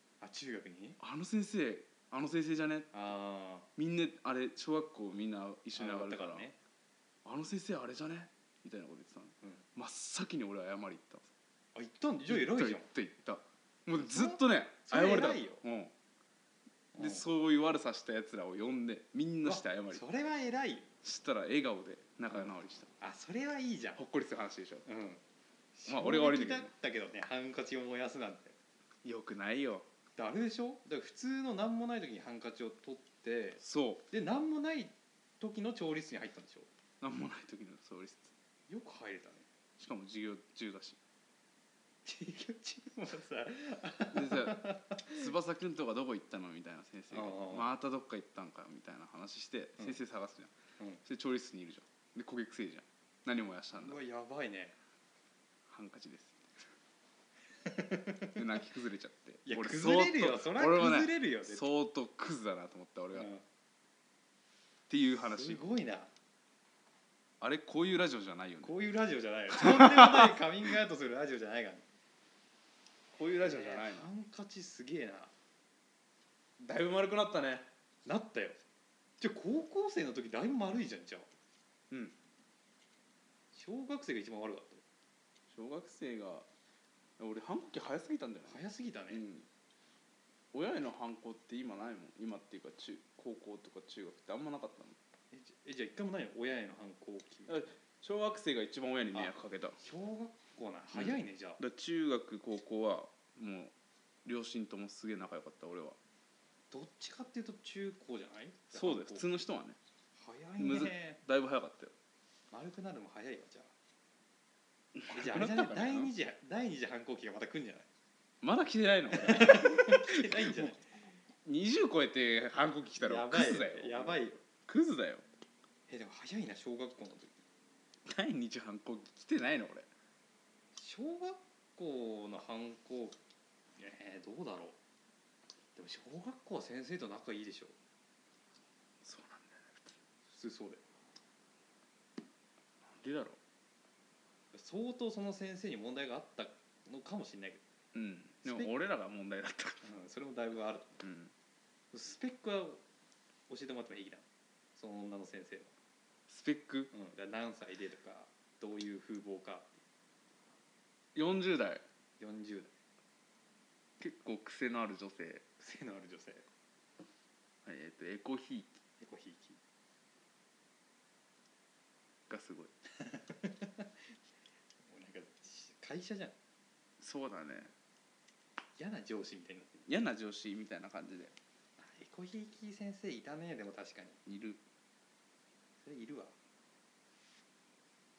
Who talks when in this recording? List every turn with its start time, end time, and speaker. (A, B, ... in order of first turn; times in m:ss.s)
0:00.2-0:01.0 A
0:01.0-0:02.9 B
0:02.9-0:03.7 A
0:03.8-0:06.4 B
0:05.7-0:06.6 A
0:07.2-0:11.3 B
0:11.7-0:12.9 A
0:12.2-0:15.9 B
0:13.9-0:15.6 A
0:16.9-0:17.2 A
0:17.0-0:20.0 B
0:19.4-0:20.9 A
0:21.0-0:22.9 B
0:22.3-0:24.0 A
0:24.0-0:24.8 B
0:24.8-0:25.2 A
0:25.7-0:28.6 A
0:25.9-0:26.7 B
0:29.0-0:29.8 B
0:30.2-0:36.7 A
0:33.6-0:34.0 B
0:37.0-0:38.3 B
0:38.7-0:39.4 A
0:39.8-0:41.0 B
0:42.0-0:45.3 A
0:44.1-0:50.5 B
0:47.1-0:47.7 A
0:51.0-0:54.0 B
0:53.8-0:54.7 A
0:55.7-0:56.5 B
0:57.6-0:58.4 A
0:58.3-1:03.3 B
0:59.4-1:01.7 A
1:03.1-1:03.4 A
1:04.9-1:05.6 B
1:05.1-1:06.1 A
1:07.4-1:08.7 B
1:08.6-1:11.8 A
1:09.6-1:10.3 B
1:13.1-1:14.1 B
1:13.4-1:15.3 A
1:16.6-1:17.7 B
1:18.0-1:18.6 A
1:19.2-1:21.3 A
1:21.9-1:22.1 B
1:23.5-1:24.8 A
1:25.5-1:26.5 B
1:27.2-1:29.4 B
1:28.4-1:29.2 A
1:30.5-1:35.0 B
1:35.3-1:37.6 A
1:37.5-1:39.8 B
1:39.1-1:41.6 A
1:40.9-1:43.7 B
1:44.2-1:46.0 B
1:46.7-1:49.4 A
1:48.7-1:49.8 B
1:50.1-1:51.2 A
1:50.6-1:51.9 B
1:52.5-1:53.7 A
1:55.0-1:56.1 B
1:55.1-1:57.9 A
1:58.4-2:00.7 B
1:59.1-2:01.0 A
2:01.4-2:05.2 B
2:03.0-2:04.4 A
2:05.9-2:07.4 A
2:08.0-2:09.9 B
2:10.7-2:13.2 A
2:13.8-2:14.8 A
2:15.8-2:17.7 A
2:19.0-2:20.0 B
2:20.3-2:20.8 A
2:23.0-2:23.4 B
2:24.5-2:27.6 A
2:27.9-2:29.8 B
2:28.4-2:28.7 A
2:29.8-2:31.0 A
2:31.0-2:31.3 B
2:31.9-2:32.8 A
2:33.5-2:34.2 A
2:34.8-2:35.7 A
2:36.3-2:36.9 B
2:36.9-2:39.8 A
2:41.1-2:41.8 B
2:42.2-2:42.7 A
2:44.0-2:45.4 B
2:45.6-2:46.4 A
2:47.6-2:48.8 B
2:49.0-2:49.6 A
2:52.3-2:52.7 B
2:52.9-2:53.9 A
2:54.8-2:56.3 A
2:57.0-2:57.7 B
2:58.8-2:59.9 A
2:59.9-3:01.3 B
3:01.8-3:04.2 A
3:04.2-3:04.6 B
3:05.8-3:06.3 A